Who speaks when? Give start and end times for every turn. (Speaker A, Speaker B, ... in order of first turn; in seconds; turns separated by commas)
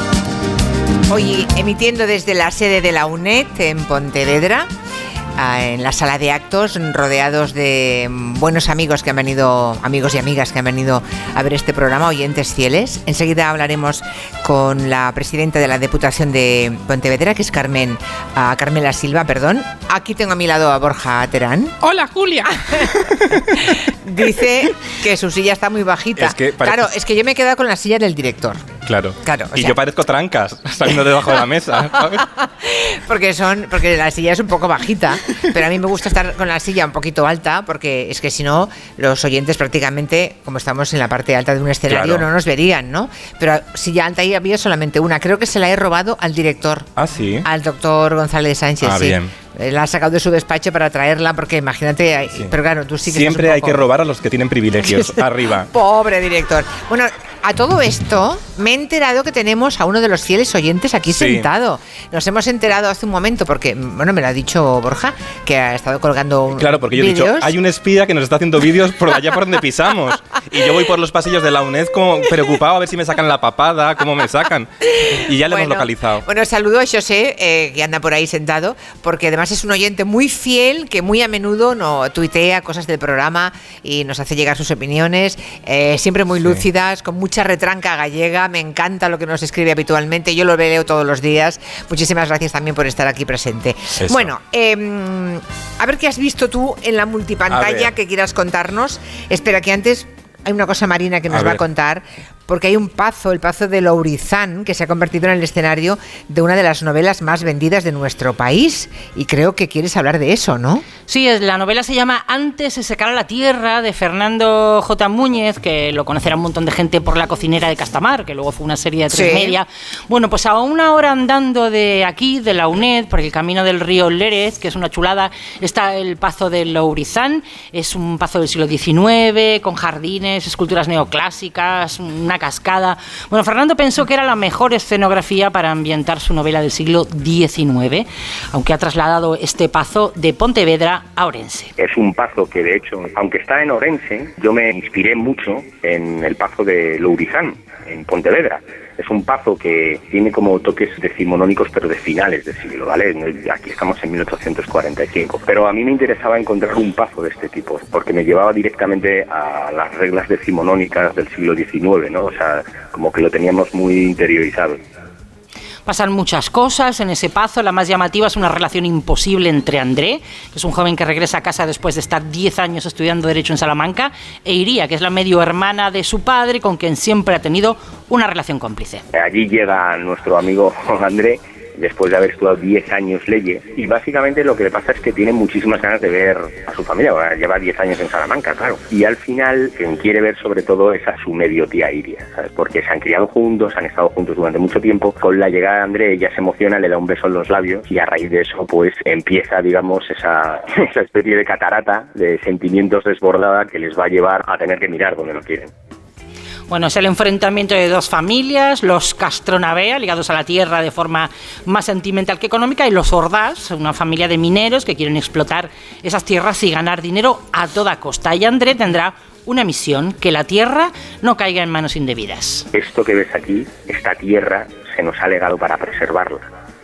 Speaker A: 1.1-4.7, Speaker A: 5.4-21.7, Speaker B: 21.8-23.7, Speaker A: 24.0-28.6, Speaker B: 26.2-26.9, Speaker B: 28.9-32.3, Speaker A: 29.2-29.7, Speaker A: 32.3-46.9, Speaker B: 41.9-42.3, Speaker B: 47.0-47.5, Speaker A: 47.4-53.9, Speaker B: 48.8-49.3, Speaker B: 53.0-55.7, Speaker A: 55.7-67.5, Speaker B: 61.1-61.5, Speaker B: 66.5-76.2, Speaker A: 74.9-110.8, Speaker B: 94.0-94.3, Speaker B: 97.5-97.9, Speaker B: 101.3-101.6, Speaker C: 111.1-141.7, Speaker A: 119.2-119.6, Speaker D: 141.8-164.8, Speaker C: 165.8-179.0, Speaker D: 179.3-205.7, Speaker C: 206.7-222.7, Speaker D: 222.7-226.4